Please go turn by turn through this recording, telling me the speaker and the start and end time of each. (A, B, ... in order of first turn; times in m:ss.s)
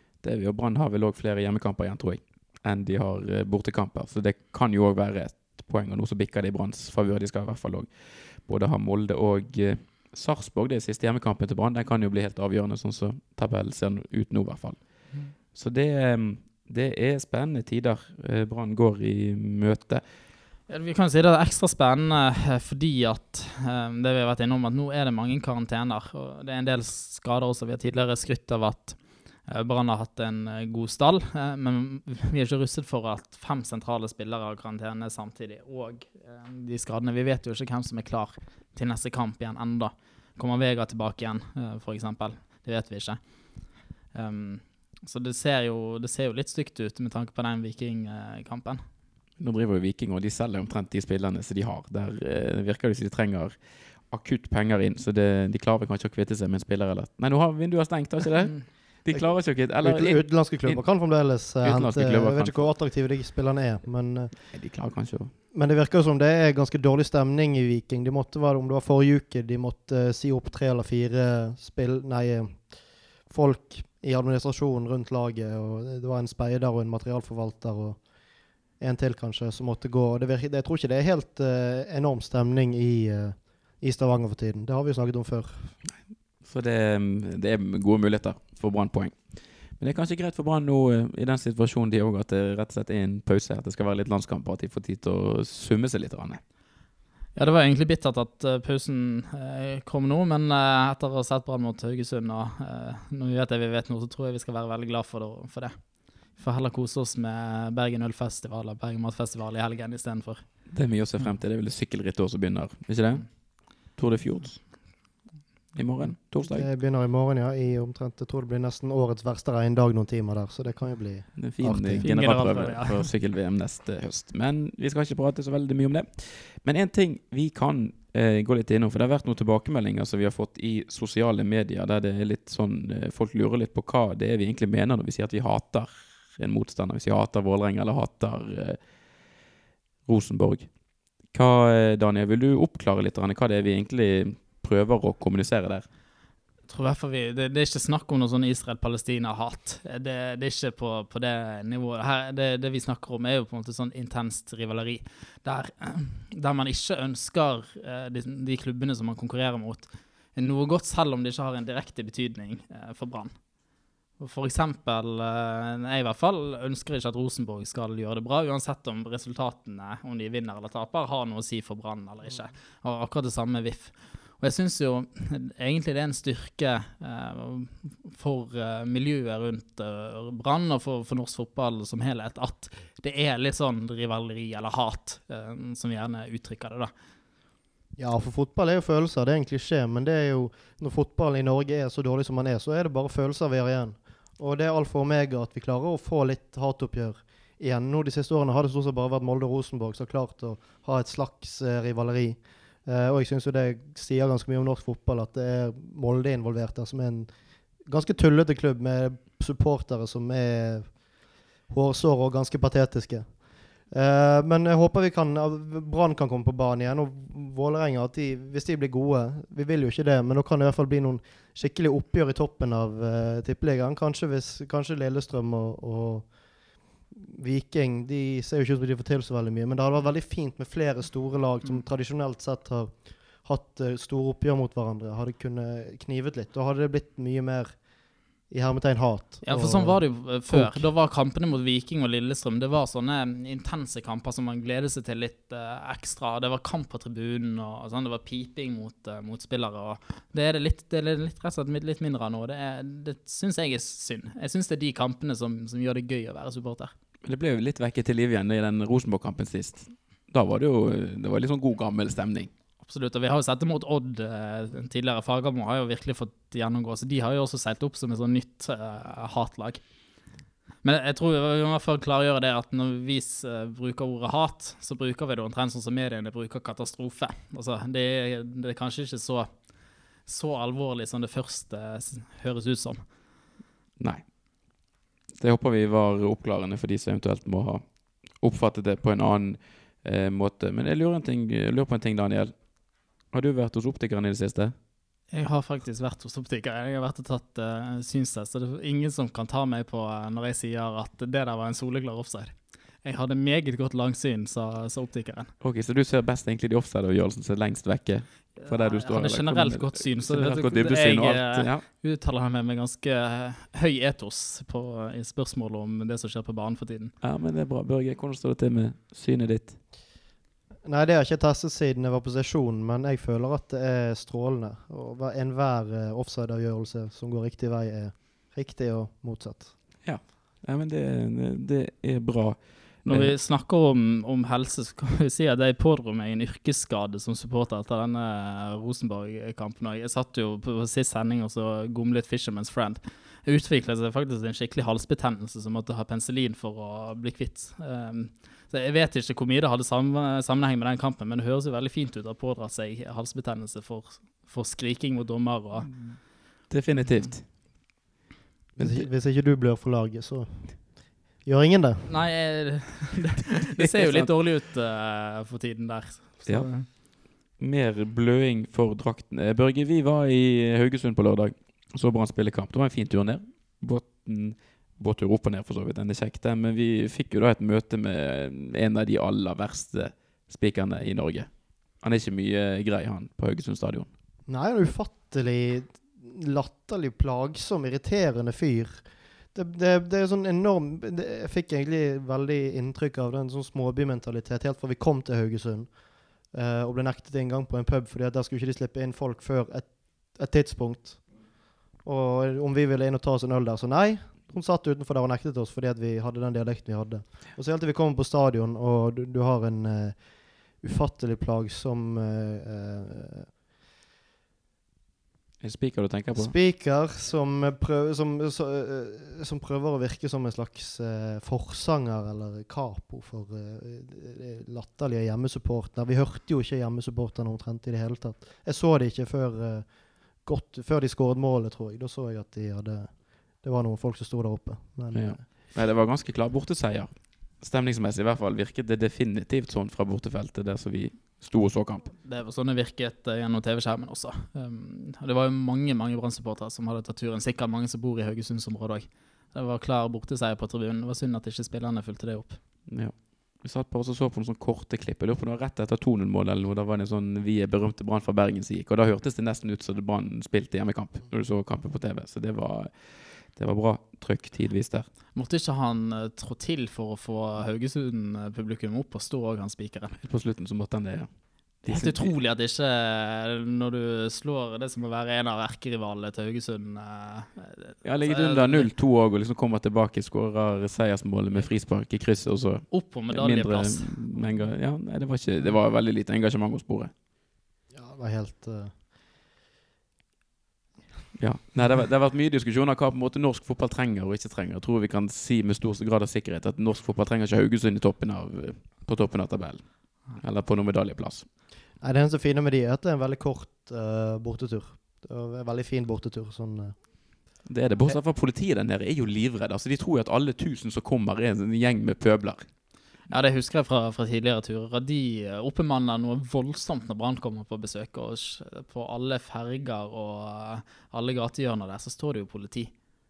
0:00.2-0:20.0 A
0:20.7-0:48.8 B
0:49.4-1:00.8 A
0:59.1-1:04.5 C
1:01.6-1:02.7 A
1:04.5-1:05.3 A
1:05.5-1:12.7 C
1:13.3-1:18.0 C
1:18.8-1:25.8 C
1:25.8-1:36.4 A
1:37.3-1:50.7 B
1:50.7-1:54.7 A
1:55.7-1:56.7 A
1:56.4-2:02.0 C
2:01.3-2:18.8 A
2:02.0-2:03.1 B
2:20.0-2:20.7 A
2:21.3-2:25.9 A
2:26.7-2:43.4 B
2:44.2-3:06.9 B
3:08.0-3:27.3 C
3:27.8-3:31.0 C
3:31.7-3:46.3 C
3:47.1-3:57.8 C
3:58.5-4:00.9 C
3:59.4-4:16.9 B
4:17.2-4:22.5 A
4:22.8-4:29.8 B
4:30.8-4:39.5 B
4:40.2-4:43.0 B
4:44.0-4:44.3 A
4:45.4-4:52.6 A
4:53.2-4:54.7 A
4:55.3-5:05.5 B
5:05.6-5:11.8 A
5:08.6-5:17.1 B
5:17.2-5:19.8 A
5:20.8-5:29.7 C
5:30.0-5:33.4 A
5:33.0-5:56.1 B
5:55.9-5:57.5 A
5:58.8-5:59.1 A
5:58.8-6:02.1 C
6:02.1-6:06.9 B
6:03.8-6:04.3 A
6:06.4-6:24.1 A
6:24.5-6:35.9 C
6:36.5-6:41.4 C
6:42.0-6:53.5 C
6:55.6-6:56.5 A
6:56.3-7:15.4 C
7:15.1-7:22.0 A
7:22.2-7:32.6 B
7:32.9-7:45.1 A
7:45.3-7:50.2 B
7:50.2-7:52.3 A
7:51.8-7:58.9 B
7:58.0-8:07.1 A
8:02.9-8:04.7 B
8:07.9-8:08.9 C
8:11.3-8:21.5 A
8:22.0-8:27.1 C
8:27.6-8:32.7 A
8:33.3-8:42.9 B